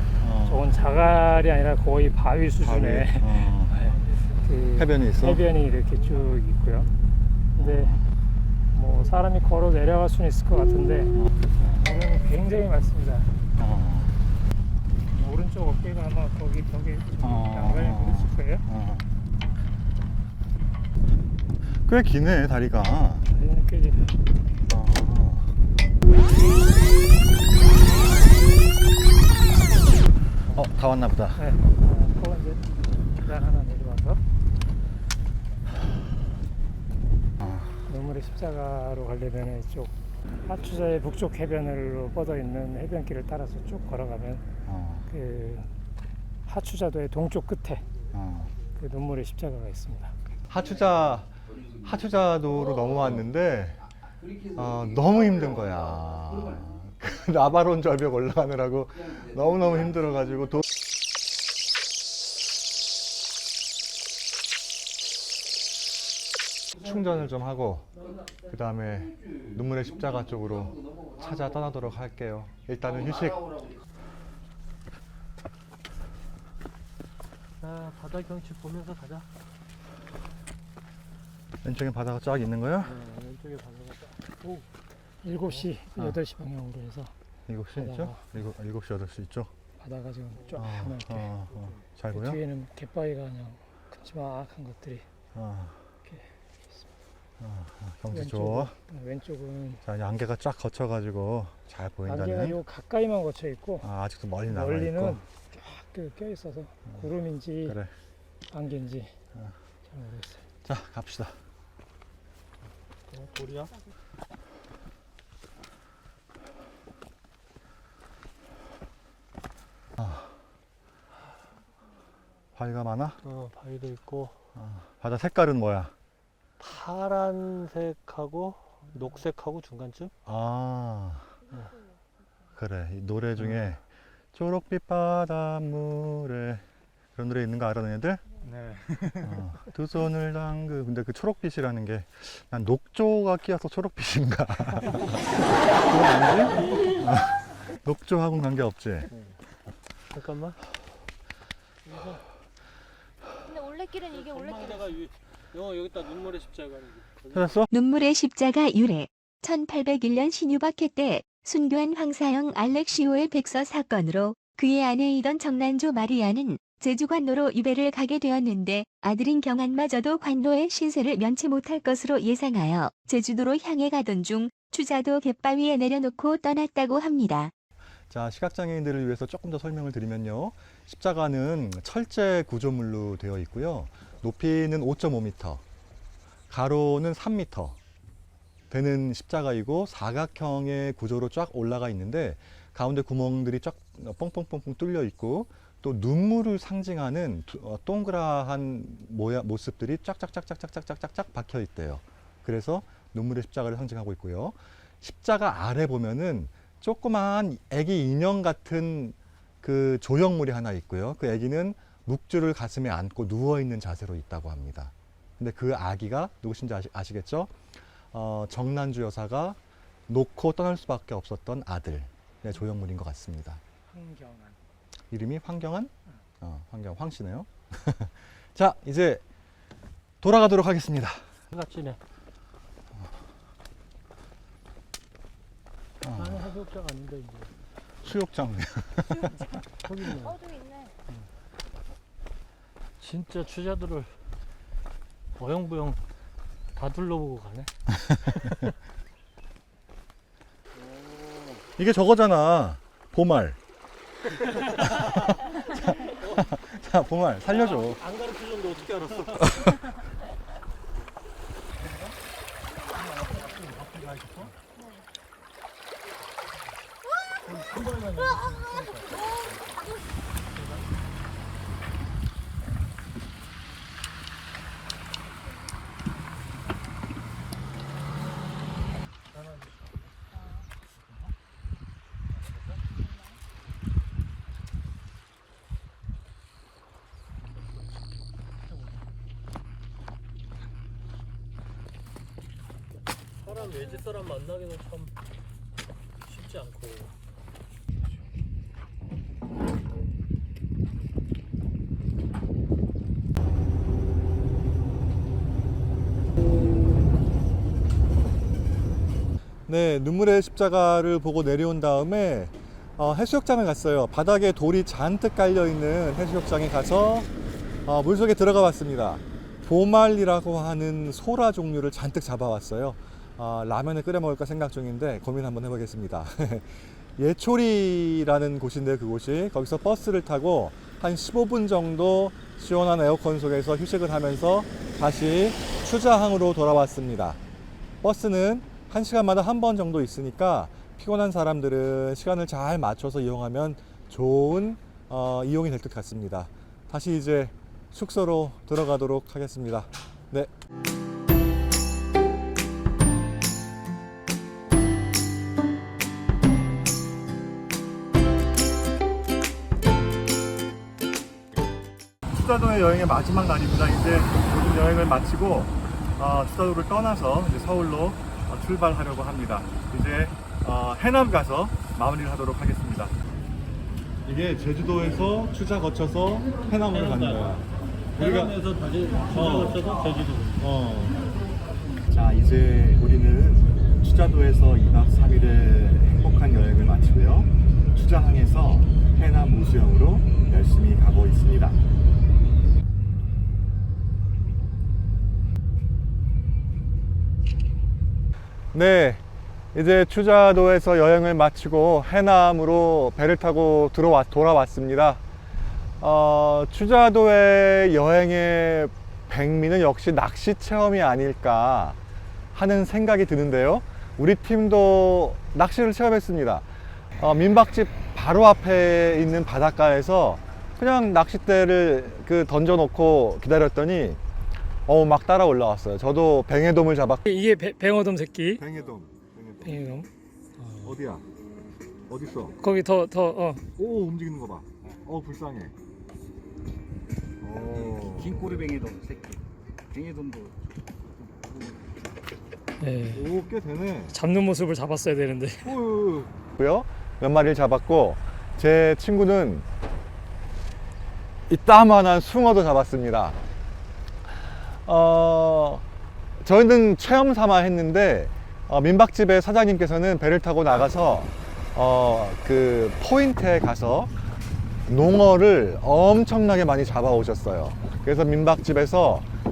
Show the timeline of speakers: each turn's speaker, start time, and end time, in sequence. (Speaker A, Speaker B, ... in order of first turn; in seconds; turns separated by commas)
Speaker A: 0.2-0.7, Speaker B: 0.4-6.9, Speaker A: 2.6-3.7, Speaker A: 4.7-5.4, Speaker C: 6.9-7.2, Speaker B: 7.5-8.0, Speaker A: 7.6-8.0, Speaker B: 8.7-13.3, Speaker A: 11.1-11.8, Speaker A: 13.6-14.2, Speaker B: 15.1-18.6, Speaker A: 17.2-19.1, Speaker A: 21.9-23.3, Speaker B: 23.3-24.2, Speaker A: 24.7-25.5, Speaker A: 30.5-31.4, Speaker B: 31.4-34.2, Speaker A: 37.4-37.8, Speaker B: 37.9-44.4, Speaker A: 44.6-45.0, Speaker B: 45.1-45.7, Speaker B: 46.5-47.8, Speaker A: 48.1-48.5, Speaker B: 48.8-50.1, Speaker A: 50.5-53.9, Speaker A: 54.5-60.6, Speaker A: 66.7-67.9, Speaker A: 68.5-73.7, Speaker C: 77.6-79.3, Speaker A: 81.6-82.9, Speaker C: 82.8-84.6, Speaker B: 85.2-87.1, Speaker A: 87.5-89.5, Speaker B: 87.8-88.2, Speaker B: 89.8-91.4, Speaker A: 90.5-92.4, Speaker B: 92.1-95.0, Speaker A: 95.3-95.9, Speaker B: 96.0-96.9, Speaker A: 97.4-98.7, Speaker B: 98.1-99.8, Speaker A: 99.8-102.6, Speaker B: 102.0-103.9, Speaker A: 103.8-105.2, Speaker B: 104.5-107.8, Speaker A: 107.6-107.9, Speaker B: 108.5-109.2, Speaker B: 109.8-110.4, Speaker A: 110.6-111.3, Speaker C: 113.1-113.7, Speaker A: 120.0-120.4, Speaker A: 122.5-123.2, Speaker C: 123.2-124.3, Speaker A: 124.5-125.9, Speaker C: 126.6-130.1, Speaker A: 130.2-131.3, Speaker D: 131.5-132.0, Speaker A: 132.6-133.8, Speaker C: 133.4-133.6, Speaker A: 134.3-136.6, Speaker A: 137.1-138.5, Speaker A: 139.0-145.2, Speaker A: 145.8-149.1, Speaker C: 150.1-150.6, Speaker C: 151.8-152.2, Speaker D: 153.4-154.9, Speaker C: 154.1-157.5, Speaker A: 157.3-157.7, Speaker E: 157.7-177.5, Speaker A: 178.1-185.6, Speaker A: 186.5-187.8, Speaker A: 188.7-223.6, Speaker B: 223.9-224.6, Speaker A: 225.1-229.2, Speaker A: 230.2-231.3, Speaker C: 231.5-232.0, Speaker A: 236.0-236.5, Speaker C: 236.1-237.5, Speaker A: 238.0-239.3, Speaker C: 239.8-240.4, Speaker D: 240.2-240.9, Speaker C: 243.0-244.1, Speaker C: 245.4-246.0, Speaker C: 246.7-247.7, Speaker A: 247.9-248.6, Speaker C: 250.7-251.7, Speaker A: 251.8-253.6, Speaker C: 254.4-255.2, Speaker A: 254.8-255.3, Speaker A: 255.8-258.0, Speaker C: 255.8-256.5, Speaker C: 257.4-259.7, Speaker A: 259.4-259.9, Speaker C: 262.9-264.5, Speaker D: 264.8-265.0, Speaker C: 267.4-269.1, Speaker C: 293.4-295.1, Speaker C: 296.2-297.1, Speaker A: 309.7-317.3, Speaker A: 317.9-337.4, Speaker A: 338.0-350.5, Speaker A: 362.2-373.1, Speaker A: 374.2-378.6, Speaker C: 376.9-377.4, Speaker C: 378.2-380.6, Speaker A: 379.3-379.8, Speaker A: 380.6-381.3, Speaker A: 382.1-391.8, Speaker A: 398.7-399.2, Speaker A: 399.7-405.2, Speaker A: 406.0-412.0, Speaker A: 412.5-416.6, Speaker A: 417.2-424.2, Speaker A: 424.9-427.2, Speaker B: 427.2-428.6, Speaker A: 428.6-429.8, Speaker B: 429.6-430.9, Speaker A: 430.8-431.2, Speaker A: 432.1-432.6, Speaker B: 432.6-433.6, Speaker A: 433.8-435.7, Speaker A: 437.4-439.4, Speaker A: 439.9-440.5, Speaker A: 441.3-441.7, Speaker B: 442.8-443.3, Speaker A: 443.1-444.1, Speaker B: 444.1-445.8, Speaker A: 445.6-449.6, Speaker A: 451.5-453.4, Speaker A: 454.8-455.8, Speaker A: 456.4-464.1, Speaker A: 464.9-469.3